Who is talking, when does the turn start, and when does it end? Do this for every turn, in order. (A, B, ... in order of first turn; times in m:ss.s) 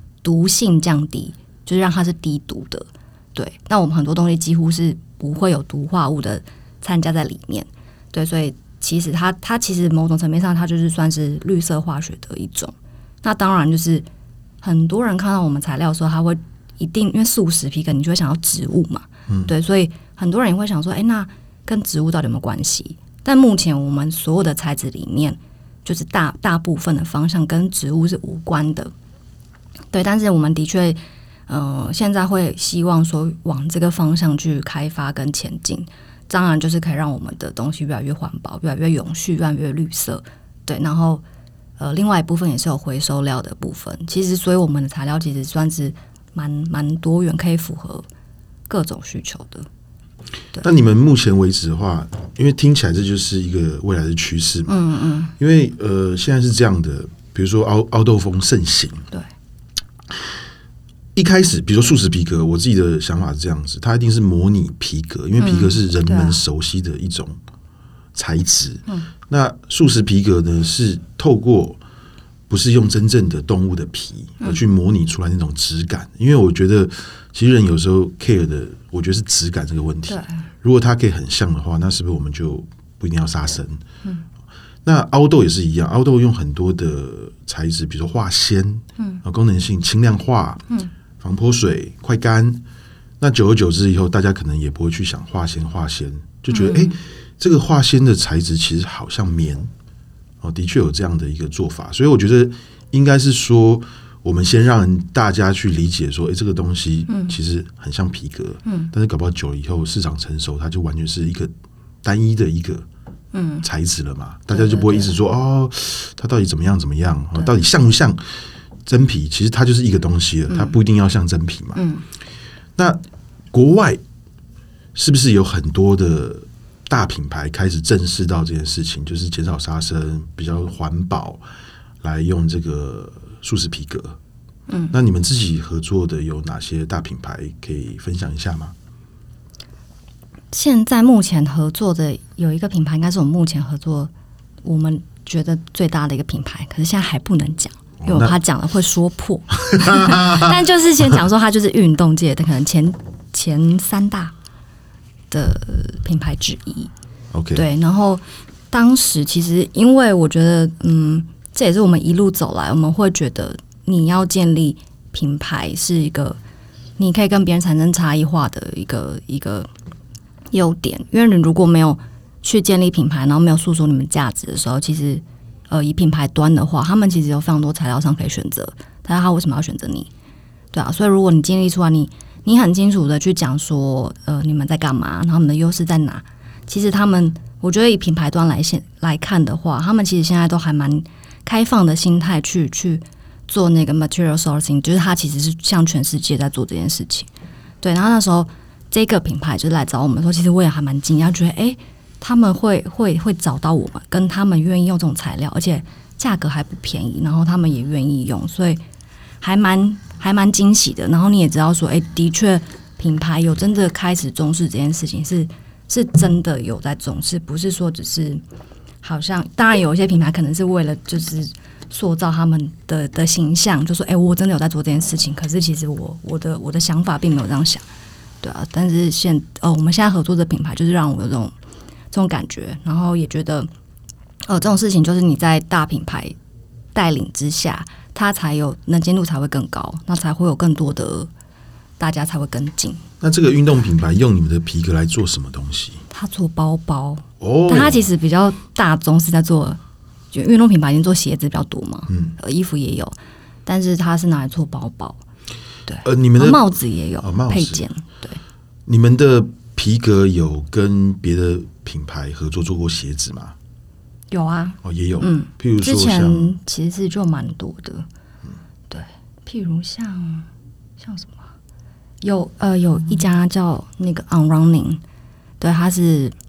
0:00.2-0:14.0 A
0:14.6-0:28.9 A
0:29.9-0:41.2 A
0:41.8-0:48.0 A
0:48.7-0:49.7 A
0:50.6-0:54.8 B
0:54.7-0:55.3 A
0:55.4-0:59.1 B
1:01.2-1:07.4 B
1:05.4-1:06.4 A
1:08.1-1:11.8 B
1:12.5-1:23.8 B
1:20.1-1:20.4 A
1:24.8-1:30.6 B
1:31.2-1:32.6 B
1:33.2-1:39.7 B
1:36.5-1:37.0 A
1:40.4-1:51.5 B
1:47.1-1:47.4 A
1:48.6-1:48.9 A
1:52.0-1:52.8 B
1:53.3-1:53.6 A
1:53.6-1:58.2 B
1:54.5-1:55.1 A
1:58.8-2:01.8 B
2:00.5-2:00.7 A
2:01.8-2:02.0 A
2:02.8-2:03.0 B
2:03.5-2:04.0 B
2:04.9-2:11.4 B
2:12.0-2:14.2 B
2:14.7-2:14.9 A
2:14.9-2:18.7 B
2:20.5-2:24.1 A
2:24.6-2:34.3 A
2:28.0-2:28.4 B
2:29.7-2:30.5 B
2:35.3-2:36.9 A
2:37.3-2:37.6 B
2:37.5-2:46.4 A
2:47.0-2:49.7 A
2:50.5-3:00.1 A
3:00.7-3:17.3 A
3:17.8-3:28.8 A
3:29.4-3:38.4 A
3:39.0-3:47.8 A
3:48.4-3:51.5 A
3:52.1-3:53.7 A
3:54.4-3:56.4 A
3:56.9-4:01.3 A
4:02.0-4:03.0 A
4:03.2-4:06.0 B
4:06.1-4:09.8 A
4:07.4-4:08.1 B
4:10.3-4:15.2 A
4:12.1-4:12.3 B
4:15.8-4:18.4 A
4:16.0-4:16.6 B
4:17.2-4:17.8 B
4:18.9-4:23.5 B
4:24.3-4:28.1 A
4:24.8-4:26.5 B
4:28.9-4:30.5 A
4:31.0-4:31.5 A
4:32.2-4:35.0 A
4:35.6-4:36.3 A